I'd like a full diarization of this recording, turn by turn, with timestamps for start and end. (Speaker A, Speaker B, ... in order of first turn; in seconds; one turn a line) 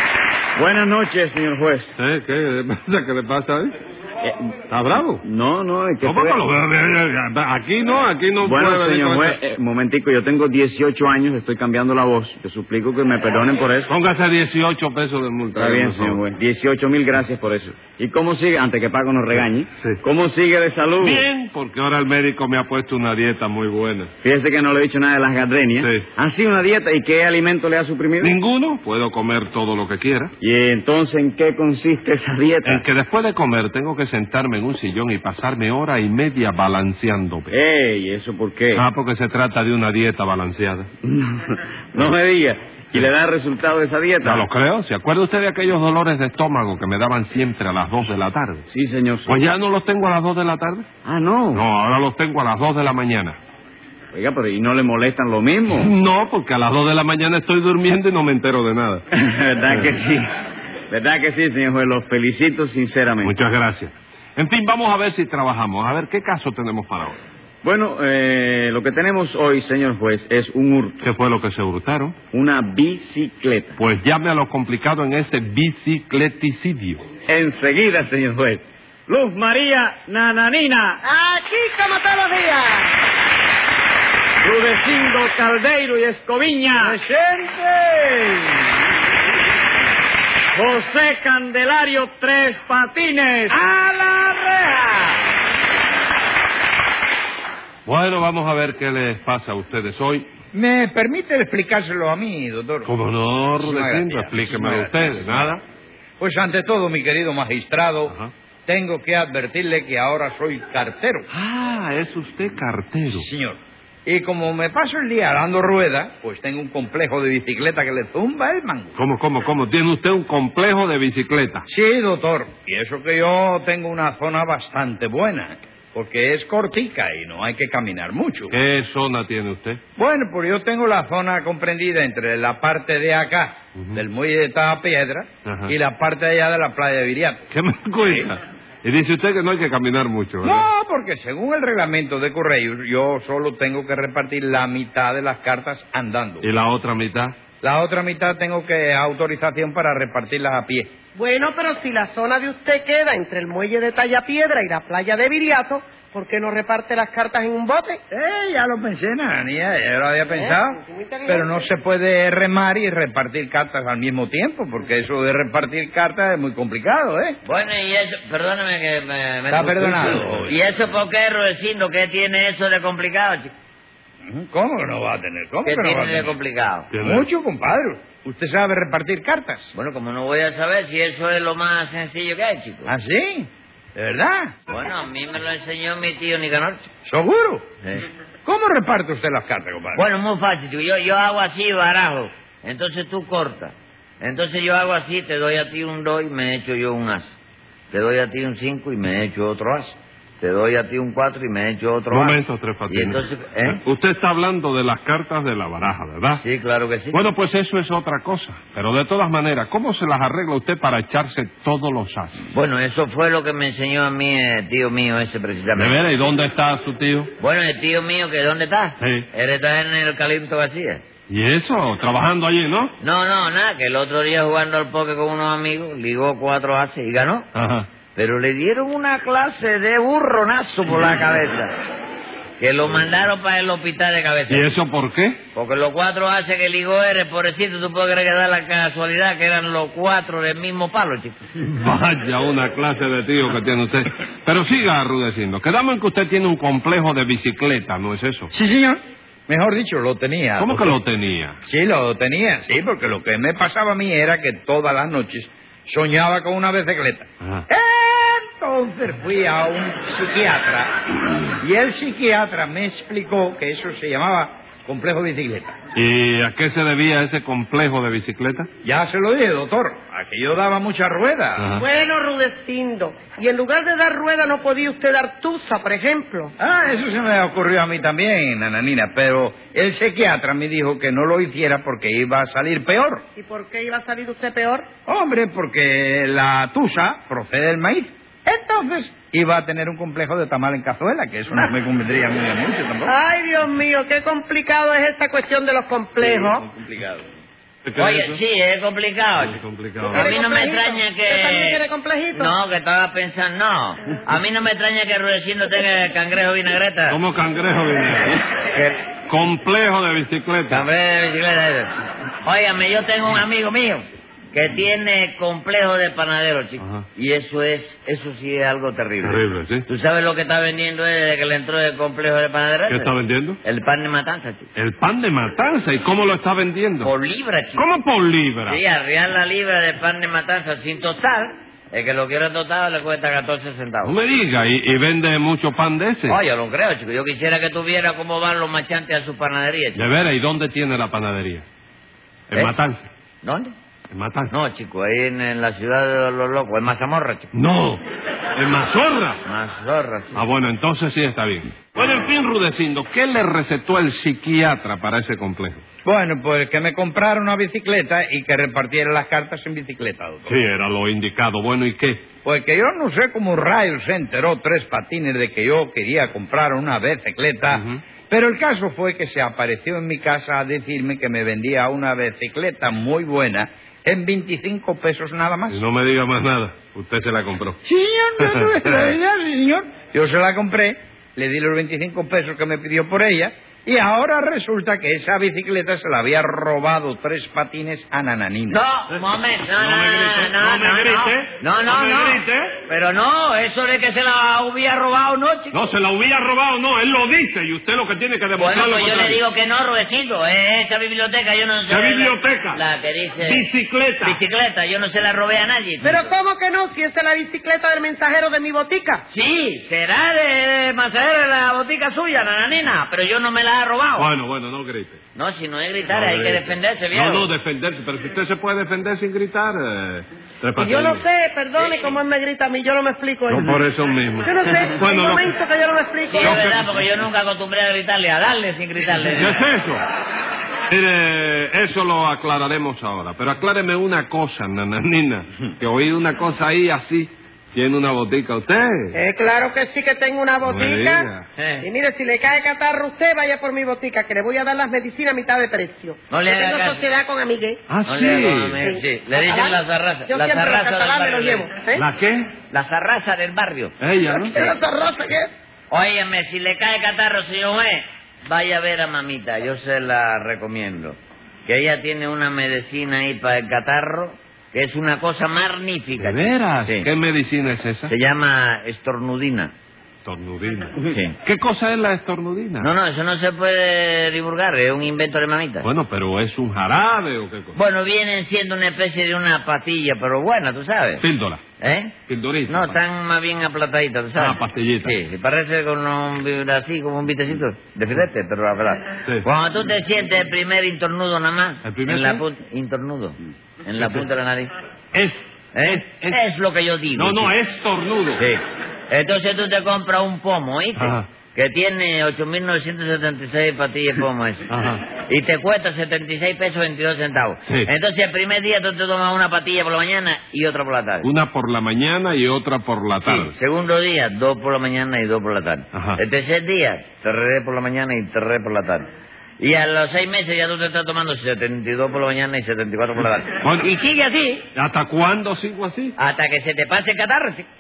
Speaker A: 0.6-1.9
Speaker B: 2.0-3.7
Speaker A: 4.2-4.5
Speaker B: 4.7-5.2
Speaker A: 5.2-6.4
Speaker B: 6.0-9.4
Speaker A: 8.4-13.9
Speaker B: 13.9-16.2
Speaker A: 15.6-21.3
Speaker B: 21.0-24.1
Speaker A: 24.2-28.4
Speaker B: 25.8-26.1
Speaker B: 28.2-30.3
Speaker A: 30.4-32.8
Speaker B: 32.6-37.6
Speaker A: 37.5-38.9
Speaker B: 38.7-40.9
Speaker A: 41.0-44.5
Speaker B: 44.2-48.6
Speaker A: 48.7-49.3
Speaker B: 49.3-50.9
Speaker A: 51.0-51.6
Speaker B: 51.5-53.4
Speaker A: 54.1-55.9
Speaker B: 55.7-59.0
Speaker A: 59.1-60.2
Speaker A: 60.9-63.4
Speaker B: 63.2-67.2
Speaker A: 67.6-71.0
Speaker B: 71.0-72.2
Speaker A: 72.3-73.8
Speaker B: 73.8-77.1
Speaker A: 77.3-81.0
Speaker C: 81.0-83.0
Speaker A: 84.4-87.0
Speaker D: 87.3-87.9
Speaker A: 88.1-88.6
Speaker A: 90.5-93.6
Speaker B: 97.8-100.3
Speaker D: 100.5-102.9
Speaker B: 102.8-105.6
Speaker D: 103.6-105.5
Speaker D: 106.2-108.1
Speaker D: 108.7-111.3
Speaker B: 111.3-113.3
Speaker D: 113.1-119.0
Speaker B: 119.0-121.7
Speaker D: 121.7-128.5
Speaker B: 128.5-129.8
Speaker D: 130.0-137.5
Speaker B: 133.8-134.0
Speaker B: 135.4-135.7
Speaker B: 137.5-140.7
Speaker D: 138.0-138.3
Speaker D: 140.4-146.5
Speaker B: 146.4-147.3
Speaker D: 147.6-150.9
Speaker C: 151.2-158.0
Speaker D: 158.1-167.4
Speaker C: 160.4-161.6
Speaker E: 167.5-173.5
Speaker D: 169.5-170.5
Speaker D: 174.2-176.3
Speaker E: 175.7-176.9
Speaker B: 176.9-177.3
Speaker D: 177.0-179.7
Speaker E: 179.8-182.9
Speaker D: 182.9-184.5
Speaker E: 184.7-186.9
Speaker D: 187.1-187.7
Speaker D: 188.4-190.0
Speaker E: 189.9-197.3
Speaker E: 197.9-203.8
Speaker B: 202.1-206.4
Speaker E: 206.4-207.2
Speaker B: 207.1-212.5
Speaker E: 212.5-216.0
Speaker B: 215.8-217.3
Speaker E: 217.4-221.0
Speaker B: 219.0-219.3
Speaker B: 221.3-222.9
Speaker E: 223.0-227.5
Speaker B: 227.5-227.9
Speaker E: 228.2-231.8
Speaker E: 232.6-234.7
Speaker B: 234.5-235.4
Speaker E: 235.6-241.4
Speaker B: 241.6-248.5
Speaker D: 248.5-250.8
Speaker B: 250.6-251.6
Speaker D: 251.7-261.0
Speaker D: 261.6-265.8
Speaker B: 265.9-268.7
Speaker D: 268.8-271.7
Speaker B: 271.6-271.9
Speaker C: 271.8-276.5
Speaker D: 276.6-283.2
Speaker C: 283.4-284.9
Speaker D: 285.1-293.1
Speaker C: 293.1-296.7
Speaker D: 296.4-297.2
Speaker B: 297.8-298.4
Speaker E: 298.0-299.6
Speaker B: 299.4-300.3
Speaker E: 300.1-301.8
Speaker C: 300.1-302.5
Speaker E: 302.4-307.2
Speaker B: 307.1-308.4
Speaker E: 308.5-309.0
Speaker B: 309.3-310.8
Speaker E: 310.7-311.9
Speaker E: 312.4-323.1
Speaker B: 316.8-317.1
Speaker B: 319.2-319.9
Speaker B: 322.9-323.6
Speaker E: 323.6-324.7
Speaker B: 324.8-327.1
Speaker E: 327.0-327.9
Speaker B: 327.8-328.8
Speaker E: 328.6-334.2
Speaker B: 334.0-336.4
Speaker E: 336.3-340.1
Speaker B: 339.9-341.6
Speaker B: 342.5-343.1
Speaker E: 343.4-343.7
Speaker B: 344.1-344.5
Speaker E: 344.5-347.5
Speaker B: 347.5-348.0
Speaker B: 348.6-349.4
Speaker E: 349.4-350.4
Speaker B: 350.3-355.8
Speaker D: 356.0-360.5
Speaker B: 360.5-362.2
Speaker D: 362.4-375.8
Speaker B: 367.7-368.0
Speaker B: 375.7-377.8
Speaker D: 377.9-388.8
Speaker B: 378.4-379.2
Speaker E: 388.7-395.9
Speaker B: 389.1-392.8
Speaker B: 395.7-399.4
Speaker E: 398.6-403.7
Speaker B: 401.9-402.8
Speaker B: 403.4-404.4
Speaker E: 404.2-406.3
Speaker C: 406.0-409.2
Speaker E: 409.3-414.3
Speaker B: 414.2-415.2
Speaker E: 415.4-417.5
Speaker B: 416.1-421.3
Speaker C: 420.8-423.8
Speaker E: 421.8-422.1
Speaker B: 423.5-425.5
Speaker C: 424.4-426.6
Speaker E: 426.3-429.7
Speaker B: 426.4-427.1
Speaker B: 429.3-430.0
Speaker B: 430.9-439.1
Speaker C: 439.1-447.8
Speaker B: 440.6-441.5
Speaker E: 441.6-441.9
Speaker E: 446.3-447.1
Speaker B: 447.9-448.8
Speaker E: 448.1-451.7
Speaker C: 448.8-452.1
Speaker B: 451.9-452.5
Speaker E: 452.7-453.9
Speaker B: 454.0-454.6
Speaker C: 454.4-455.5
Speaker E: 454.5-454.8
Speaker E: 455.9-467.1
Speaker B: 466.2-468.1
Speaker E: 468.1-469.7
Speaker B: 470.2-472.9
Speaker E: 471.1-471.4
Speaker E: 472.8-475.9
Speaker B: 475.8-477.8
Speaker E: 477.8-481.2
Speaker B: 481.2-481.6
Speaker E: 481.8-482.1
Speaker B: 482.3-483.0
Speaker E: 482.7-494.7
Speaker B: 484.4-485.2
Speaker B: 491.8-492.4
Speaker B: 493.9-494.3
Speaker B: 495.1-496.4
Speaker E: 495.8-497.5
Speaker B: 497.1-498.4
Speaker E: 498.4-504.7
Speaker B: 501.0-501.3
Speaker B: 504.7-505.0
Speaker E: 505.3-511.3
Speaker B: 507.6-507.9
Speaker B: 511.2-513.5
Speaker E: 513.2-519.1
Speaker B: 515.9-516.2
Speaker E: 519.6-524.7
Speaker B: 523.6-523.9
Speaker B: 524.8-526.1
Speaker E: 526.2-527.7